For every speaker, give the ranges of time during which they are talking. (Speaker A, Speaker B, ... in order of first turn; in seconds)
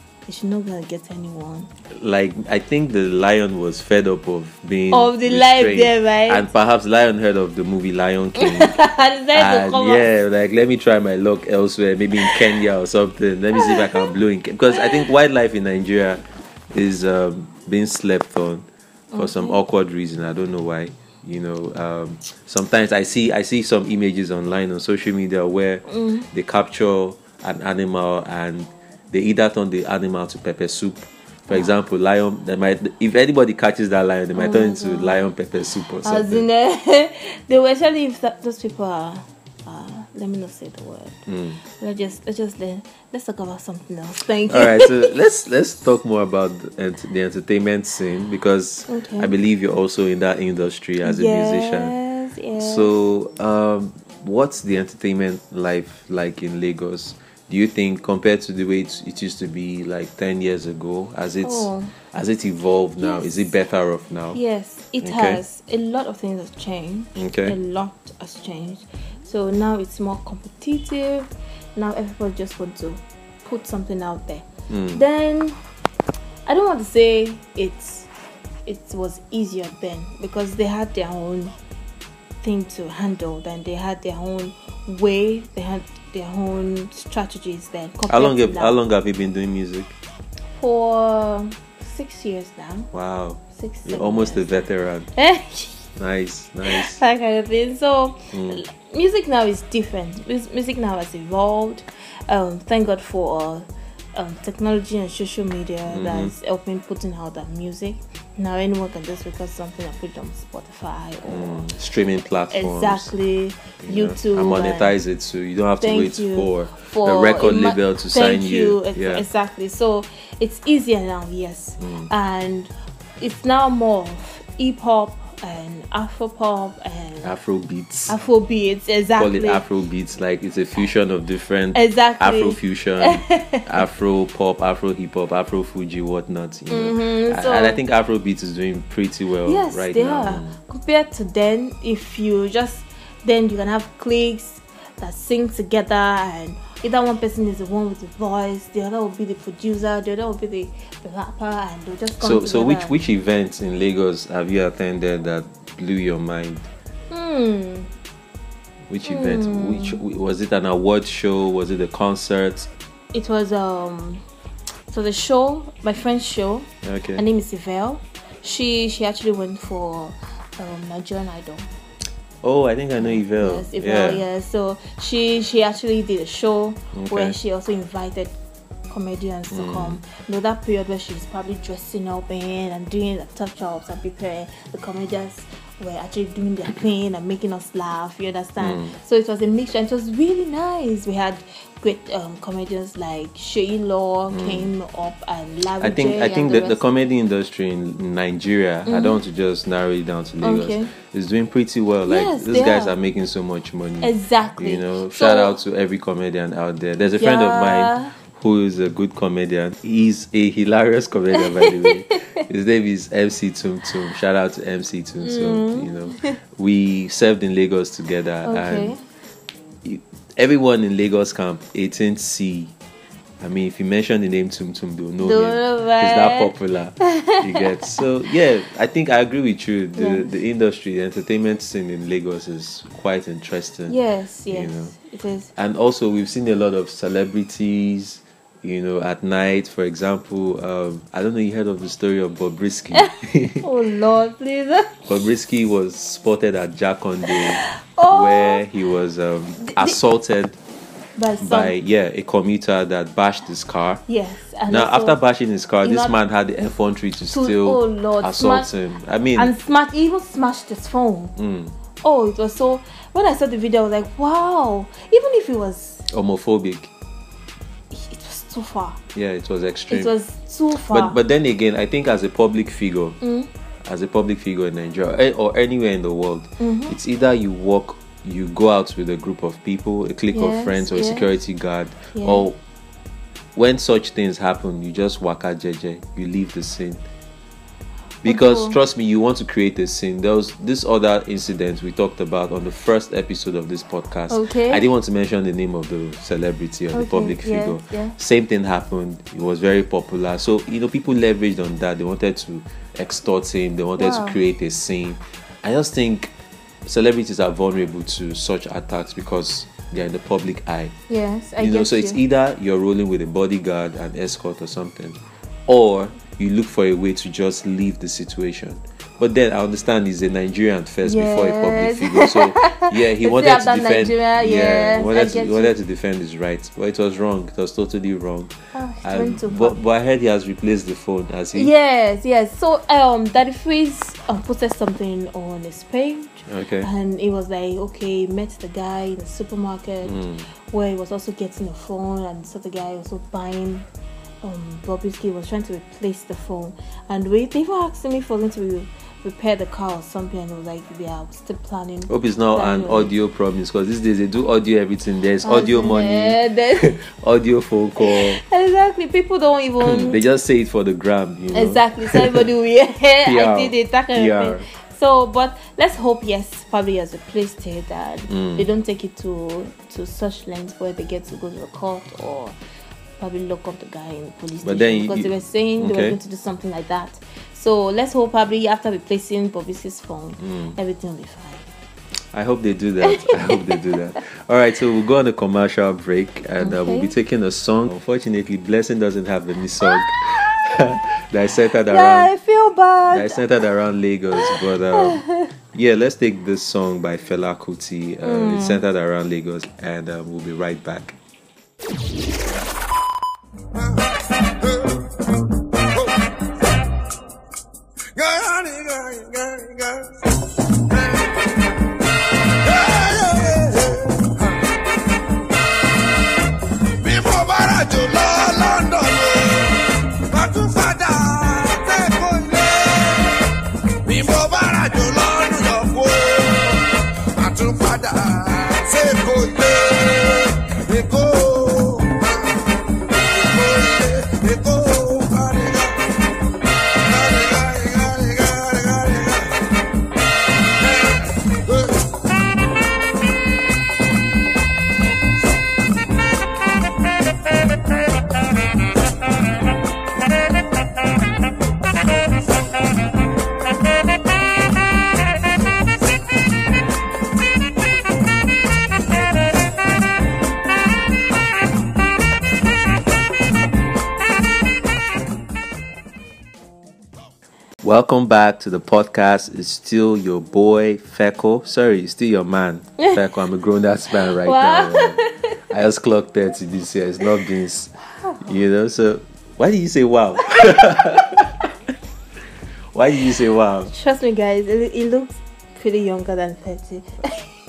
Speaker A: 0.2-1.7, 4.9-6.5, 8.3-10.1, 13.6-14.1, 19.1-19.6, 25.9-26.3, 34.3-35.3, 36.0-45.1, 48.9-49.3, 51.0-52.9, 61.4-61.9, 63.0-63.5, 64.3-75.6, 76.5-78.1, 78.7-81.5, 82.4-88.8, 90.5-92.9, 93.5-95.8, 96.7-111.7, 112.5-115.0, 115.8-127.3, 128.1-129.6, 131.7-133.7, 136.7-137.8, 139.4-152.9, 157.1-157.9, 159.0-160.0, 163.1-164.2, 164.9-171.7, 173.0-178.3, 178.9-196.8, 198.9-199.2, 200.4-200.9, 202.1-202.9, 204.0-205.6, 207.1-208.1, 211.3-212.2, 215.2-216.4, 218.4-219.0, 225.2-227.6, 230.0-230.3, 233.9-235.5, 243.6-245.0, 247.6-248.6, 249.6-250.0, 251.2-251.7, 254.1-255.2, 255.8-256.1, 257.3-258.7, 259.4-261.3, 262.0-266.1, 267.9-269.0, 269.9-271.2, 273.2-273.5, 276.6-277.0, 280.3-281.4, 282.1-282.5, 288.2-288.8, 294.3-294.8, 296.9-298.1, 304.0-304.4, 311.1-312.2, 321.0-325.7, 328.7-329.8, 331.5-343.9, 344.4-353.1, 355.4-357.0, 358.0-360.2, 361.5-372.6, 373.2-381.7, 383.1-383.8, 386.6-387.1, 389.8-390.2, 391.9-393.4, 394.4-395.5, 398.2-398.8, 474.2-475.6, 478.1-478.6, 483.9-487.5
Speaker B: 1.9-8.8, 9.3-36.4, 41.3-41.6, 44.5-51.9, 52.6-64.4, 65.0-65.4, 67.2-67.6, 74.7-75.0, 88.1-90.0, 92.9-95.1, 96.0-97.0, 98.3-98.6, 105.9-106.3, 111.3-113.1, 113.8-119.2, 121.8-122.1, 127.2-128.1, 129.2-140.6, 152.2-156.7, 158.9-162.7, 166.8-167.2, 172.4-174.2, 176.9-177.3, 179.5-180.0, 188.6-188.9, 194.3-194.7, 195.8-219.0, 219.8-222.7, 223.4-233.9, 234.5-234.9, 235.6-243.7, 245.1-250.6, 251.4-254.0, 254.7-259.5, 261.4-261.7, 266.1-266.9, 269.1-270.1, 270.8-273.2, 273.8-282.6, 283.5-287.0, 288.2-306.3, 306.8-310.9, 311.6-331.7, 336.5-336.9, 340.0-340.4, 352.1-358.4, 359.8-362.4, 363.2-364.7, 368.3-368.6, 374.6-376.2, 380.4-380.8, 382.3-392.3, 393.1-395.2, 395.7-401.1, 467.8-477.9, 478.4-481.7, 482.9-483.9
Speaker C: 403.7-406.2, 408.1-411.3, 412.5-414.7, 417.0-423.5, 424.0-436.1, 436.9-439.6, 440.8-442.1